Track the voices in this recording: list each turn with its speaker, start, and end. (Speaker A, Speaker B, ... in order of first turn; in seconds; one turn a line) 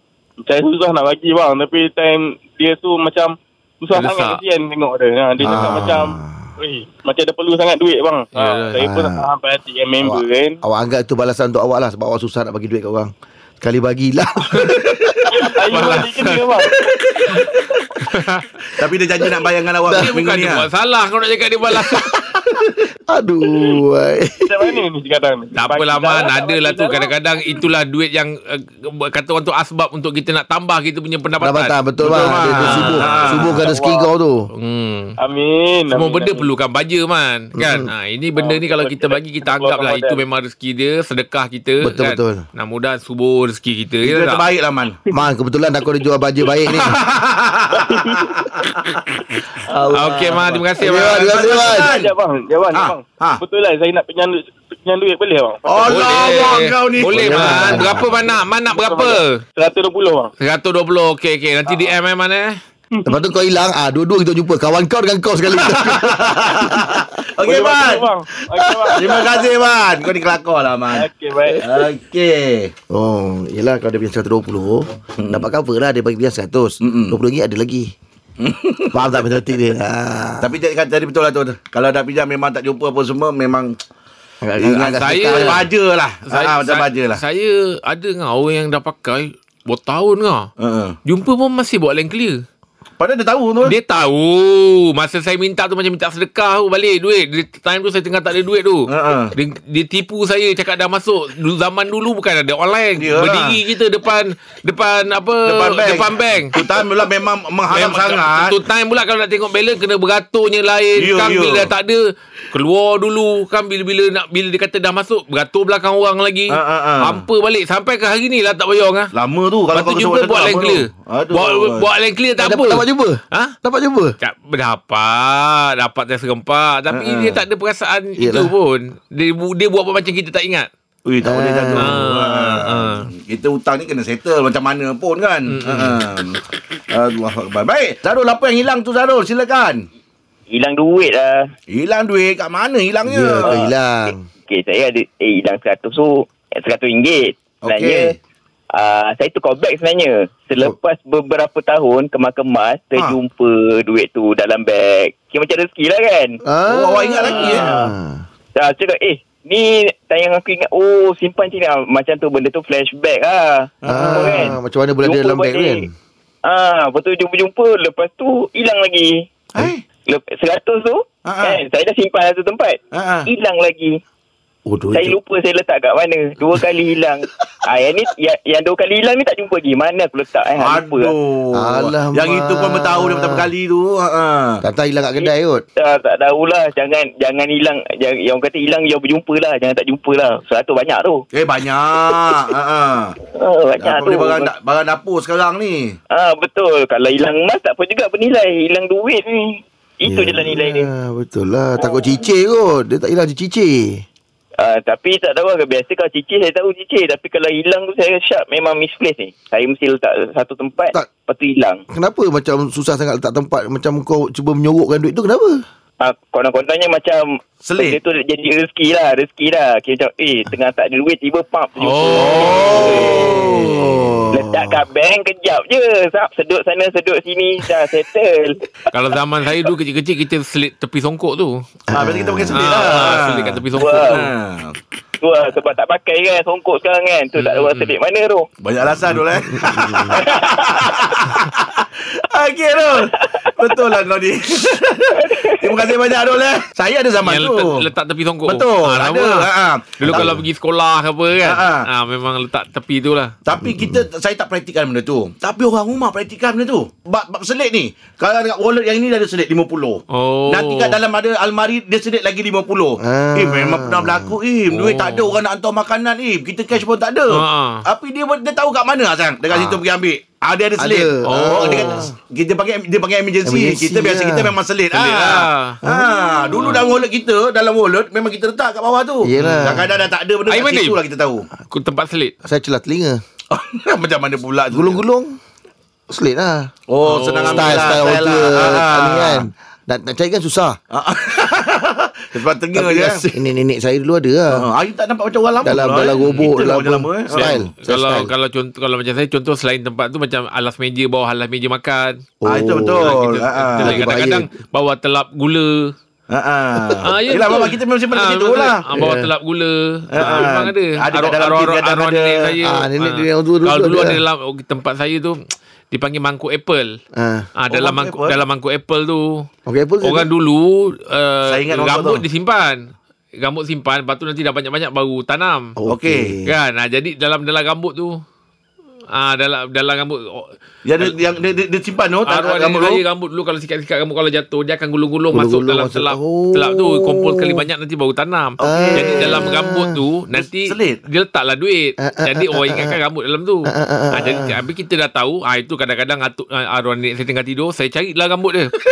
Speaker A: 0.4-10.6
Speaker B: 3.9-4.4
Speaker C: 5.4-6.5
Speaker B: 8.3-8.8
Speaker C: 8.8-9.3
Speaker C: 10.0-15.3
Speaker D: 14.8-15.1
Speaker A: 15.3-16.7
Speaker B: 15.7-16.6
Speaker D: 16.8-17.5
Speaker B: 18.1-18.4
Speaker D: 18.7-20.6
Speaker C: 19.8-20.1
Speaker B: 19.9-22.2
Speaker C: 23.1-24.8
Speaker A: 24.4-27.1
Speaker B: 25.6-33.5
Speaker C: 31.4-34.5
Speaker D: 32.0-33.6
Speaker A: 33.0-34.1
Speaker B: 34.5-35.1
Speaker A: 35.2-36.5
Speaker B: 35.9-44.4
Speaker C: 37.6-37.9
Speaker A: 38.4-40.2
Speaker C: 41.8-42.4
Speaker D: 44.0-45.0
Speaker C: 45.1-47.0
Speaker D: 46.7-49.0
Speaker A: 47.7-48.4
Speaker C: 49.6-51.9
Speaker B: 49.9-51.3
Speaker D: 50.9-52.1
Speaker A: 51.4-56.7
Speaker D: 52.7-53.4
Speaker D: 55.6-57.9
Speaker B: 55.9-59.4
Speaker C: 57.1-58.0
Speaker A: 58.7-60.3
Speaker B: 60.4-62.6
Speaker C: 63.0-67.0
Speaker D: 65.5-68.1
Speaker A: 67.4-69.5
Speaker C: 68.5-69.2
Speaker D: 68.9-71.1
Speaker A: 70.9-71.8
Speaker D: 71.6-72.7
Speaker C: 72.9-77.9
Speaker D: 75.2-75.5
Speaker D: 76.8-77.2
Speaker D: 78.4-79.4
Speaker C: 78.9-80.5
Speaker D: 80.4-83.8
Speaker C: 84.4-85.7
Speaker D: 84.6-87.2
Speaker B: 84.9-85.7
Speaker B: 86.3-90.5
Speaker D: 90.6-91.0
Speaker B: 91.0-92.4
Speaker D: 93.0-93.7
Speaker B: 93.6-106.6
Speaker D: 98.9-99.3
Speaker D: 103.0-103.6
Speaker D: 105.5-108.5
Speaker B: 107.7-119.1
Speaker D: 111.0-111.7
Speaker D: 116.5-117.2
Speaker D: 119.1-121.8
Speaker B: 119.7-123.5
Speaker C: 122.4-124.1
Speaker B: 124.2-130.7
Speaker D: 126.9-127.4
Speaker C: 128.2-128.5
Speaker D: 131.0-139.8
Speaker C: 131.2-132.0
Speaker B: 131.8-133.1
Speaker B: 135.5-136.0
Speaker E: 140.5-141.5
Speaker D: 141.7-143.7
Speaker C: 143.0-144.2
Speaker E: 144.5-148.2
Speaker D: 147.6-148.2
Speaker E: 148.7-156.4
Speaker C: 156.4-158.2
Speaker D: 156.7-157.8
Speaker E: 157.3-157.9
Speaker E: 158.6-165.8
Speaker D: 163.8-164.6
Speaker C: 163.8-165.9
Speaker E: 166.4-169.2
Speaker D: 169.5-169.8
Speaker E: 170.1-174.0
Speaker D: 171.2-171.6
Speaker D: 172.9-173.3
Speaker C: 174.7-175.2
Speaker E: 174.9-181.1
Speaker D: 180.6-184.6
Speaker C: 181.5-183.4
Speaker C: 184.6-185.6
Speaker E: 185.2-191.2
Speaker D: 191.3-193.2
Speaker E: 193.3-194.5
Speaker D: 193.8-195.9
Speaker E: 196.1-200.9
Speaker C: 200.1-204.0
Speaker E: 201.8-202.2
Speaker E: 204.6-211.8
Speaker C: 211.9-215.6
Speaker E: 216.0-223.3
Speaker D: 217.6-218.0
Speaker B: 221.8-223.8
Speaker D: 222.1-224.1
Speaker C: 223.1-224.7
Speaker E: 224.3-228.6
Speaker B: 228.9-231.6
Speaker C: 231.9-232.6
Speaker D: 231.9-234.8
Speaker B: 232.5-234.3
Speaker E: 233.8-234.2
Speaker E: 235.2-238.5
Speaker B: 237.4-237.9
Speaker D: 238.6-247.8
Speaker C: 239.1-240.2
Speaker E: 245.2-245.8
Speaker B: 247.2-249.4
Speaker D: 248.5-250.3
Speaker B: 250.0-253.3
Speaker C: 250.1-250.4
Speaker D: 251.4-251.9
Speaker D: 253.4-281.5
Speaker C: 253.6-254.0
Speaker B: 260.1-261.0
Speaker C: 263.0-264.3
Speaker B: 264.7-265.4
Speaker B: 267.3-267.8
Speaker C: 269.5-269.8
Speaker C: 270.8-272.1
Speaker B: 271.2-272.1
Speaker C: 273.4-274.5
Speaker B: 274.9-275.8
Speaker C: 275.9-276.2
Speaker B: 276.6-276.9
Speaker C: 279.2-279.9
Speaker B: 279.4-279.6
Speaker B: 280.5-281.0
Speaker B: 281.7-282.3
Speaker C: 282.4-283.2
Speaker D: 283.5-285.0
Speaker C: 284.7-285.4
Speaker C: 286.1-286.7
Speaker D: 286.9-289.5
Speaker B: 287.0-288.2
Speaker C: 287.6-290.8
Speaker D: 290.9-293.3
Speaker C: 292.7-294.6
Speaker D: 294.5-297.6
Speaker C: 295.6-298.3
Speaker B: 296.2-296.5
Speaker B: 297.3-302.2
Speaker C: 302.4-303.1
Speaker D: 302.5-304.1
Speaker B: 303.0-305.9
Speaker C: 303.8-304.5
Speaker D: 306.3-308.8
Speaker B: 307.0-315.4
Speaker C: 308.9-309.3
Speaker D: 310.1-312.5
Speaker C: 312.6-314.2
Speaker B: 315.9-316.9
Speaker C: 317.1-317.5
Speaker B: 317.6-319.5
Speaker D: 317.7-318.4
Speaker C: 319.6-320.3
Speaker B: 320.0-322.8
Speaker D: 321.5-322.2
Speaker B: 323.4-325.8
Speaker C: 325.8-326.5
Speaker D: 325.9-326.3
Speaker B: 326.4-328.2
Speaker B: 329.1-331.2
Speaker D: 330.9-333.0
Speaker B: 332.2-348.7
Speaker C: 335.3-337.6
Speaker D: 338.6-339.5
Speaker C: 338.6-340.0
Speaker D: 340.3-341.0
Speaker C: 342.0-343.0
Speaker C: 343.6-344.5